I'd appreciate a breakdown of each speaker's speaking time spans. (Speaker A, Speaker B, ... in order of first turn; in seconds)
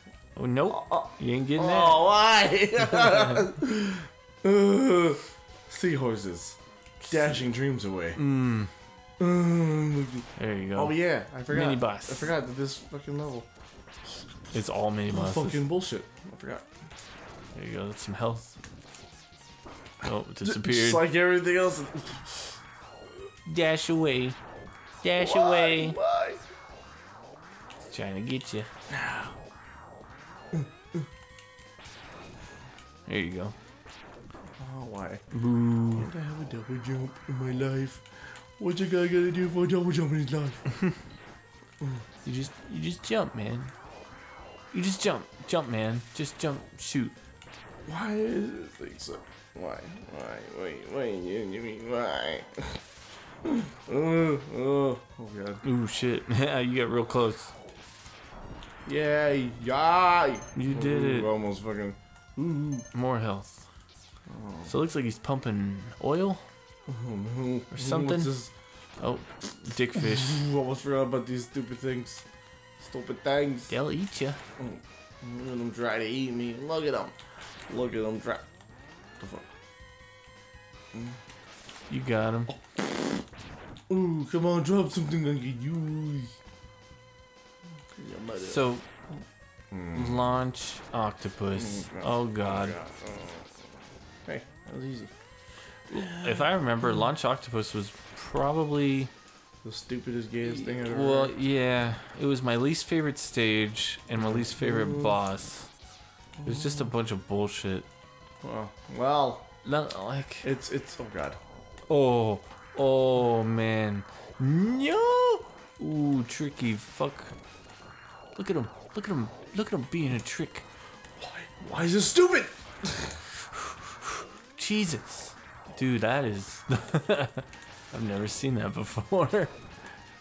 Speaker A: 0.3-2.1, 2.9-3.3, 8.2-8.7, 10.3-10.9, 11.5-12.3, 14.5-15.6, 17.5-18.5, 20.0-21.0, 23.4-24.4, 25.0-25.9, 27.8-28.7, 33.0-33.5, 35.3-36.1, 42.2-43.7, 44.7-47.1, 55.6-57.5, 60.5-61.3, 62.9-63.6, 64.7-66.4, 67.7-68.3, 69.0-70.4, 73.7-74.4, 81.9-82.5, 88.4-88.8, 89.9-92.8, 95.9-99.1, 100.4-105.7, 106.4-107.8, 109.6-110.5, 111.9-117.3, 118.3-120.6, 123.5-129.5
Speaker B: 0.7-8.2, 9.2-13.5, 15.1-16.7, 20.4-22.6, 25.2-26.4, 28.9-29.3, 30.5-31.0, 34.6-35.2, 35.9-40.6, 47.9-52.8, 53.4-55.6, 58.9-62.9, 64.3-64.7, 66.9-68.5, 69.9-72.2, 72.8-73.7, 74.6-78.4, 79.2-79.5, 80.9-81.2, 82.5-83.2, 83.9-86.3, 88.0-88.7, 89.7-90.3, 91.5-93.6, 94.2-95.1, 95.9-96.5, 99.6-101.3, 104.2-105.2, 106.4-106.9, 108.4-109.5, 110.4-111.4, 121.2-123.2